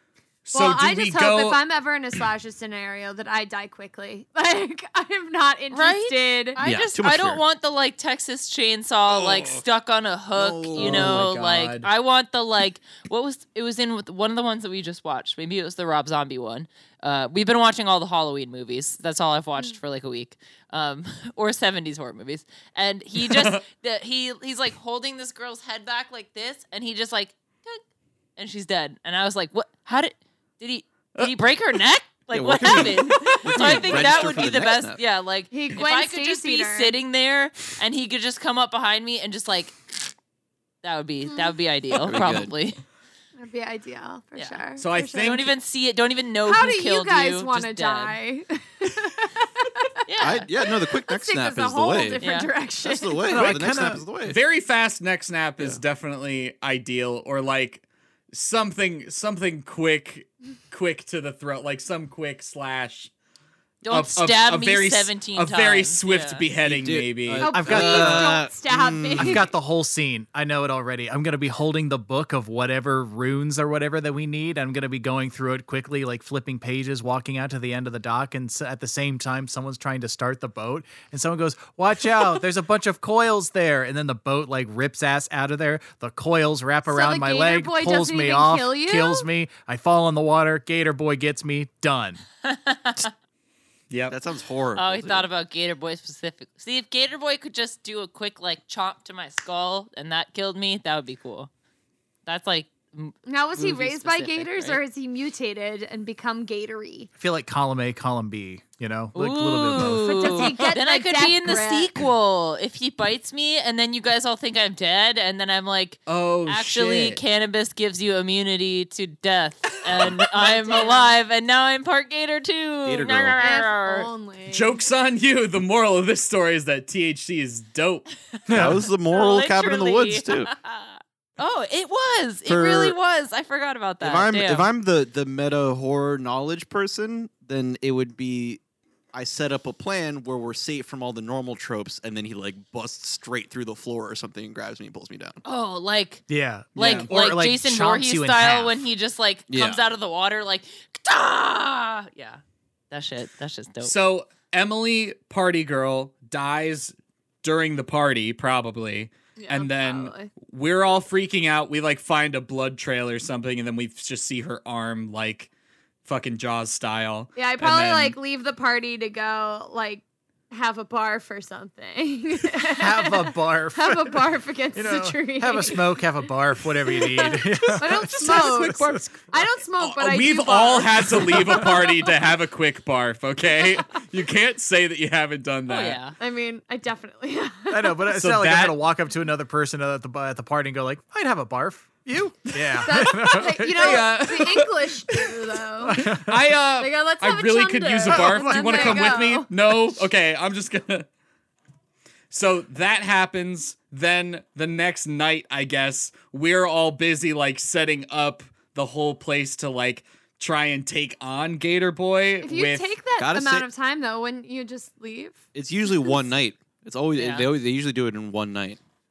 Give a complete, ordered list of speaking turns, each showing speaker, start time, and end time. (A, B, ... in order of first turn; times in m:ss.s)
0:00.5-0:01.6 A
0:00.5-0:06.6 B
0:05.7-0:27.8 C
0:06.6-0:07.4 D
0:09.1-0:09.6 D
0:10.3-0:11.3 D
0:10.8-0:11.9 A
0:23.2-0:23.6 A
0:28.4-0:39.8 C
0:32.3-0:35.0 D
0:32.8-0:34.1 A
0:35.5-0:37.0 B
0:40.8-0:42.8 C
0:41.2-0:41.5 B
0:42.0-0:42.5 D
0:43.4-0:45.4 B
0:44.3-0:44.6 C
0:44.8-0:45.5 A
0:45.2-0:48.2 C
0:46.4-0:49.9 B
0:50.1-0:50.5 C
0:50.2-0:52.2 D
0:50.8-0:53.5 B
0:52.2-0:52.5 C
0:52.8-0:54.4 D
0:53.3-0:54.0 E
0:54.2-1:03.1 A
1:03.8-1:06.4 C
1:03.9-1:07.4 A
1:06.6-1:09.5 D
1:07.4-1:09.4 B
1:07.5-1:08.5 E
1:09.2-1:32.2 E
1:26.9-1:29.2 B
1:32.4-1:33.1 C
1:33.9-1:34.2 A
1:34.1-1:35.3 D
1:34.8-1:41.5 C
1:42.2-1:44.8 C
1:43.2-1:47.1 B
1:47.2-1:50.2 E
1:49.1-2:04.1 C
1:50.0-1:52.0 B
1:50.4-1:50.7 A
1:56.1-1:57.2 A
2:00.3-2:01.1 B
2:02.8-2:03.4 D
2:03.4-2:04.8 B
2:04.5-2:08.1 A
2:08.5-2:08.9 E
2:08.5-2:10.5 D
2:09.1-2:14.7 C
2:12.4-2:13.0 D
2:14.0-2:18.6 D
2:19.1-2:25.4 D
2:25.4-2:26.2 C
2:26.3-2:28.8 E
2:26.8-2:27.1 A
2:26.8-2:33.9 C
2:29.5-2:29.8 D
2:33.8-2:45.5 A
2:39.4-2:40.3 B
2:46.0-2:48.2 A
2:47.4-2:56.0 B
2:52.8-2:54.2 E
2:54.7-2:59.0 E
2:56.9-3:01.9 B
2:58.2-2:58.8 A
2:59.8-3:06.0 A
3:01.2-3:01.6 E
3:05.7-3:06.1 C
3:06.2-3:08.1 B
3:07.7-3:14.1 E
3:08.1-3:08.8 A
3:12.8-3:16.0 B
3:13.8-3:15.3 A
3:15.8-3:16.5 E
3:16.0-3:21.1 A
3:16.8-3:19.5 B
3:18.1-3:19.1 E
3:22.3-3:32.9 A
3:32.4-3:35.4 B
3:33.2-3:33.6 D
3:35.5-3:38.8 D
3:37.2-3:37.5 C